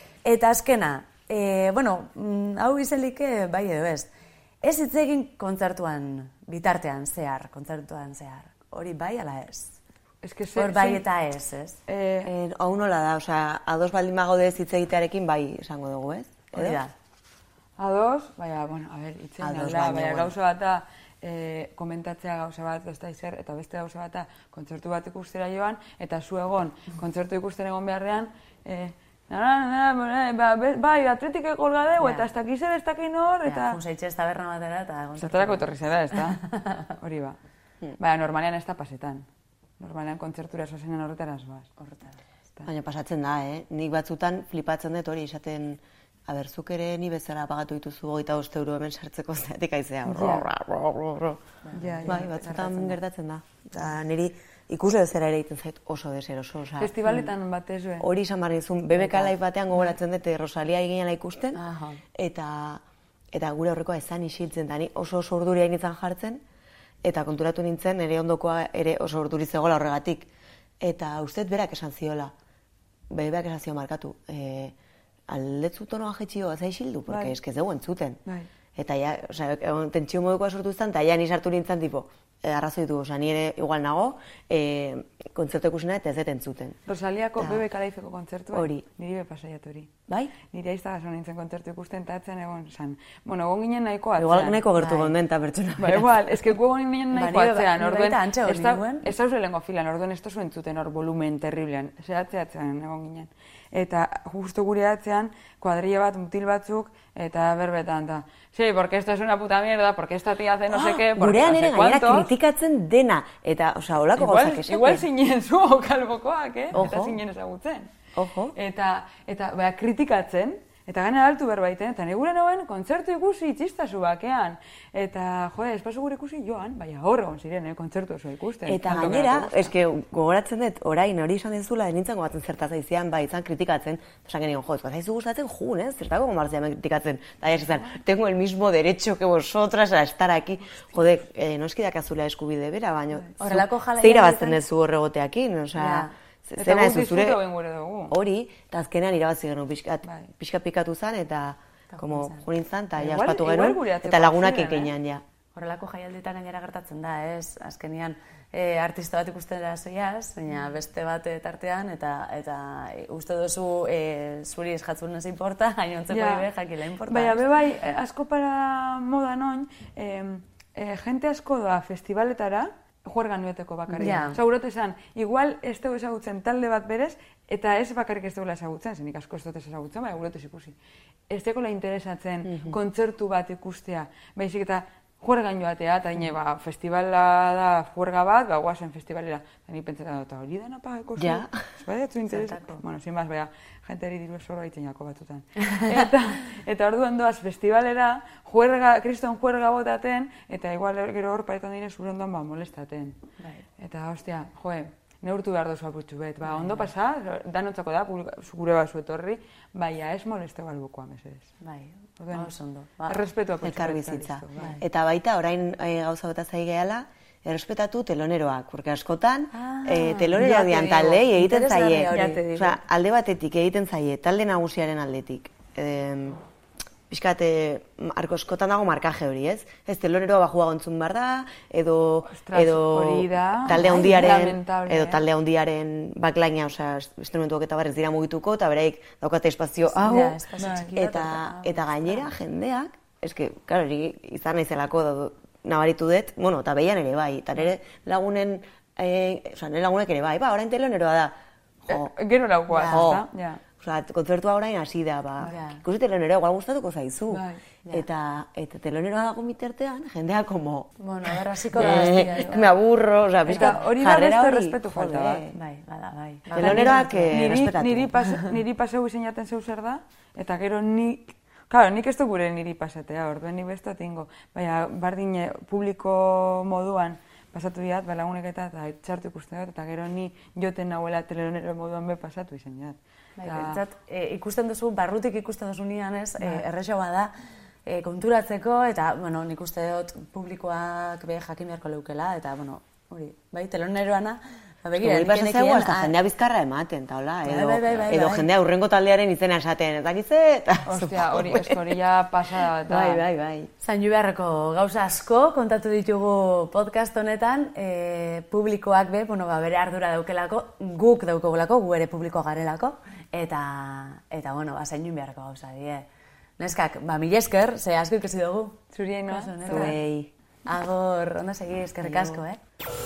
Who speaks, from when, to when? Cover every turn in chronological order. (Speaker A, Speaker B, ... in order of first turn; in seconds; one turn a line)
Speaker A: 0.2-4.1
Speaker A: 4.6-9.8
Speaker B: 10.2-11.0
Speaker A: 10.5-11.8
Speaker B: 11.9-12.3
Speaker C: 12.2-16.8
Speaker A: 16.5-16.9
Speaker B: 17.8-33.8
Speaker C: 19.4-20.3
Speaker A: 32.0-32.3
Speaker A: 33.5-36.9
Speaker B: 35.2-37.4
Speaker B: 38.0-39.3
Speaker B: 39.8-41.7
Speaker A: 41.8-42.2
Speaker C: 42.6-51.4
Speaker B: 50.1-50.5
Speaker A: 51.6-53.0
Speaker B: 51.7-52.6
Speaker C: 52.0-56.9
Speaker B: 56.8-58.1
Speaker C: 58.0-61.6
Speaker A: 59.0-59.3
Speaker A: 61.5-62.0
Speaker C: 62.1-62.8
Speaker C: 63.3-66.4
Speaker C: 67.0-70.3
Speaker C: 70.8-72.3
Speaker C: 73.1-74.7
Speaker C: 75.3-78.2
Speaker B: 77.1-77.3
Speaker C: 78.8-86.8
Speaker B: 86.9-89.9
Speaker C: 88.5-88.8
Speaker C: 90.1-90.3
Speaker B: 90.5-94.6
Speaker C: 94.2-96.4
Speaker A: 94.8-95.1
Speaker B: 95.8-112.3
Speaker A: 97.1-99.1
Speaker C: 110.7-115.0
Speaker B: 114.2-117.9
Speaker C: 116.7-117.2
Speaker C: 118.2-118.5
Speaker B: 118.5-129.7
Speaker C: 128.7-147.4
Speaker A: 143.4-144.6
Speaker A: 145.8-146.1
Speaker B: 146.6-148.2
Speaker C: 148.1-155.2
Speaker B: 150.0-150.3
Speaker A: 151.9-152.4
Speaker B: 153.0-154.9
Speaker A: 155.5-167.4
Speaker B: 166.1-166.5
Speaker B: 167.1-180.8
Speaker A: 173.9-174.4
Speaker B: 181.3-203.2
Speaker C: 182.4-182.8
Speaker C: 191.2-191.6
Speaker A: 192.3-192.8
Speaker A: 203.4-203.6
Speaker B: 203.8-211.5
Speaker A: 206.4-206.9
Speaker A: 211.6-213.2
Speaker B: 212.2-212.5
Speaker B: 213.1-214.8
Speaker C: 213.6-226.4
Speaker A: 214.6-214.8
Speaker A: 219.5-222.5
Speaker B: 222.1-222.7
Speaker C: 227.1-251.3
Speaker B: 232.3-235.2
Speaker A: 233.7-234.3
Speaker A: 239.9-242.3
Speaker B: 240.6-240.9
Speaker C: 251.8-252.1
Speaker B: 251.9-253.6
Speaker C: 252.7-253.2
Speaker C: 253.8-265.6
Speaker A: 255.4-255.8
Speaker B: 257.3-257.6
Speaker A: 261.0-262.7
Speaker B: 261.9-262.5
Speaker B: 263.4-265.4
Speaker A: 263.5-263.8
Speaker A: 265.5-267.7
Speaker C: 266.5-268.1
Speaker B: 266.5-283.8
Speaker A: 283.4-287.3
Speaker A: 287.9-296.1
Speaker C: 294.9-302.0
Speaker A: 297.4-298.5
Speaker B: 300.9-303.2
Speaker C: 302.8-303.7
Speaker A: 303.8-316.1
Speaker A: 316.6-320.0
Speaker B: 318.9-320.0
Speaker C: 319.7-320.3
Speaker A: 320.6-322.6
Speaker C: 322.0-322.4